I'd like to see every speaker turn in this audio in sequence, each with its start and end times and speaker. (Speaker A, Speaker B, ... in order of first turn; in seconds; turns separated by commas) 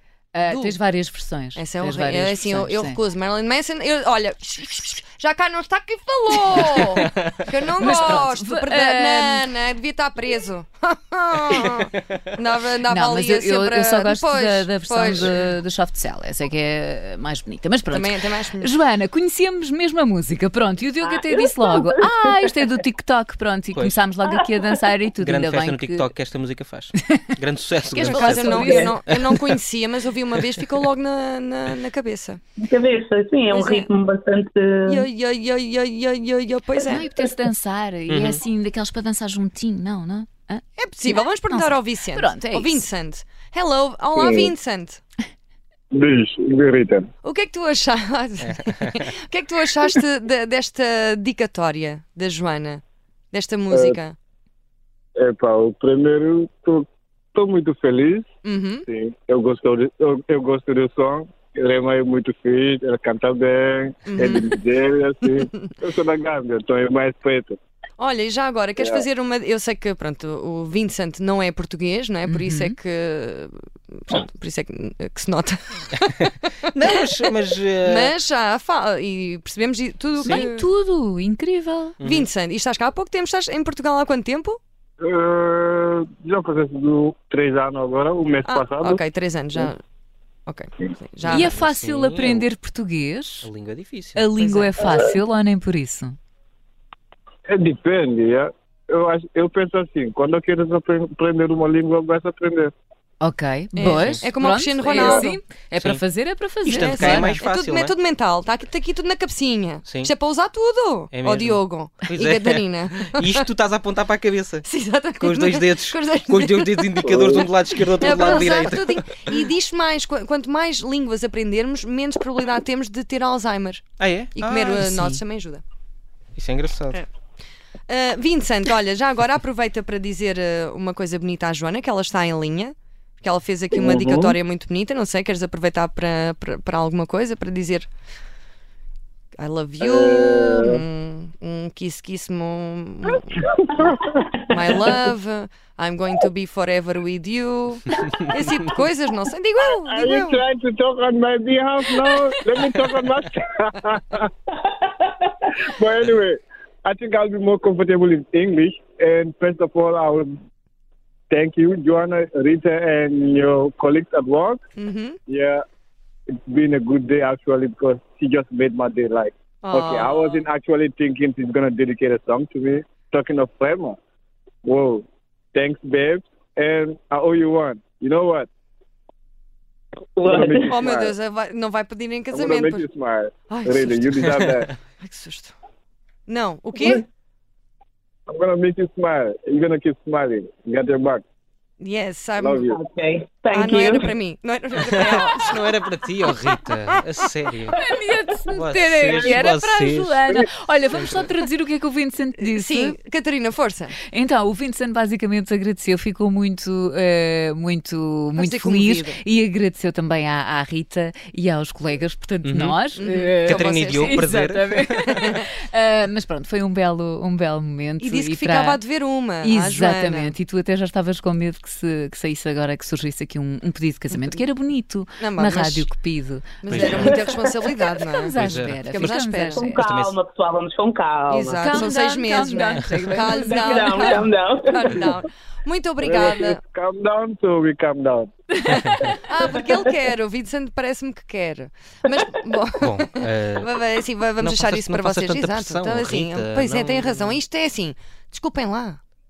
Speaker A: 0.3-3.0, Speaker B: 0.5-0.8, Speaker B: 1.5-15.3, Speaker A: 7.8-9.4, Speaker A: 12.9-26.1, Speaker B: 17.9-18.7, Speaker C: 25.2-29.2, Speaker B: 27.9-32.4, Speaker A: 28.1-28.9, Speaker D: 28.6-28.9, Speaker D: 32.6-35.0, Speaker B: 33.5-33.9, Speaker B: 34.9-37.0, Speaker A: 36.9-42.9, Speaker C: 38.1-38.4, Speaker B: 40.8-45.0, Speaker E: 44.1-44.5, Speaker E: 45.9-47.1, Speaker B: 47.2-54.1, Speaker C: 48.4-49.1, Speaker E: 53.7-54.0, Speaker E: 55.1-58.2, Speaker B: 58.4-58.8, Speaker E: 58.9-67.6, Speaker B: 64.0-64.5, Speaker B: 68.0-77.3, Speaker E: 68.8-69.0, Speaker A: 72.3-72.7, Speaker C: 76.7-78.2, Speaker B: 77.8-80.7, Speaker C: 80.2-80.5, Speaker A: 80.2-82.0, Speaker C: 82.0-82.3, Speaker B: 82.0-84.6, Speaker E: 85.0-89.0, Speaker B: 88.4-89.8, Speaker B: 90.5-91.5, Speaker A: 91.2-93.5, Speaker C: 91.3-92.5, Speaker C: 93.4-94.3, Speaker A: 94.1-96.2, Speaker B: 94.4-94.8, Speaker E: 97.5-102.7, Speaker A: 103.2-107.4, Speaker B: 103.8-105.4, Speaker C: 103.8-104.2, Speaker C: 105.8-106.0, Speaker C: 106.7-107.9, Speaker B: 106.7-113.4, Speaker C: 109.8-110.1, Speaker C: 111.1-114.6, Speaker B: 114.6-125.6, Speaker C: 115.2-119.4, Speaker E: 117.1-117.5, Speaker C: 124.0-124.8, Speaker A: 124.8-125.2, Speaker C: 126.3-127.0, Speaker B: 127.9-137.9, Speaker E: 133.7-134.3, Speaker B: 139.4-143.8, Speaker E: 139.8-140.8, Speaker B: 144.5-150.4, Speaker E: 149.9-154.3, Speaker E: 155.8-160.3, Speaker E: 161.3-164.6, Speaker B: 164.8-165.2, Speaker E: 165.3-165.6, Speaker E: 166.4-174.0, Speaker B: 169.6-170.4, Speaker E: 174.6-178.5, Speaker D: 180.2-180.7, Speaker E: 180.2-181.1, Speaker B: 180.7-182.8, Speaker E: 182.3-184.7, Speaker B: 183.5-184.2, Speaker C: 184.3-184.6, Speaker B: 185.0-185.5, Speaker B: 186.3-187.1, Speaker E: 188.3-191.2, Speaker B: 191.8-192.6, Speaker E: 192.4-192.8, Speaker D: 192.6-194.1, Speaker B: 193.5-196.6, Speaker C: 194.9-197.7, Speaker A: 197.7-202.9, Speaker C: 198.5-200.2, Speaker E: 199.1-199.4, Speaker C: 200.9-201.2, Speaker B: 202.4-203.9, Speaker A: 204.1-218.8, Speaker B: 208.3-209.2, Speaker C: 212.4-212.8, Speaker B: 212.9-214.3, Speaker C: 213.4-214.9, Speaker B: 215.1-215.4, Speaker B: 218.0-220.3, Speaker A: 219.4-227.1, Speaker B: 225.2-225.9, Speaker B: 226.6-229.7, Speaker C: 226.7-227.1, Speaker D: 226.9-227.2, Speaker A: 228.1-229.8, Speaker C: 228.3-229.1, Speaker D: 229.5-231.9, Speaker C: 229.8-230.1, Speaker B: 231.3-236.6, Speaker A: 231.6-234.2, Speaker D: 233.3-235.1, Speaker E: 236.0-238.3, Speaker A: 238.6-239.2, Speaker B: 239.2-249.0, Speaker C: 242.8-243.7, Speaker C: 244.4-247.4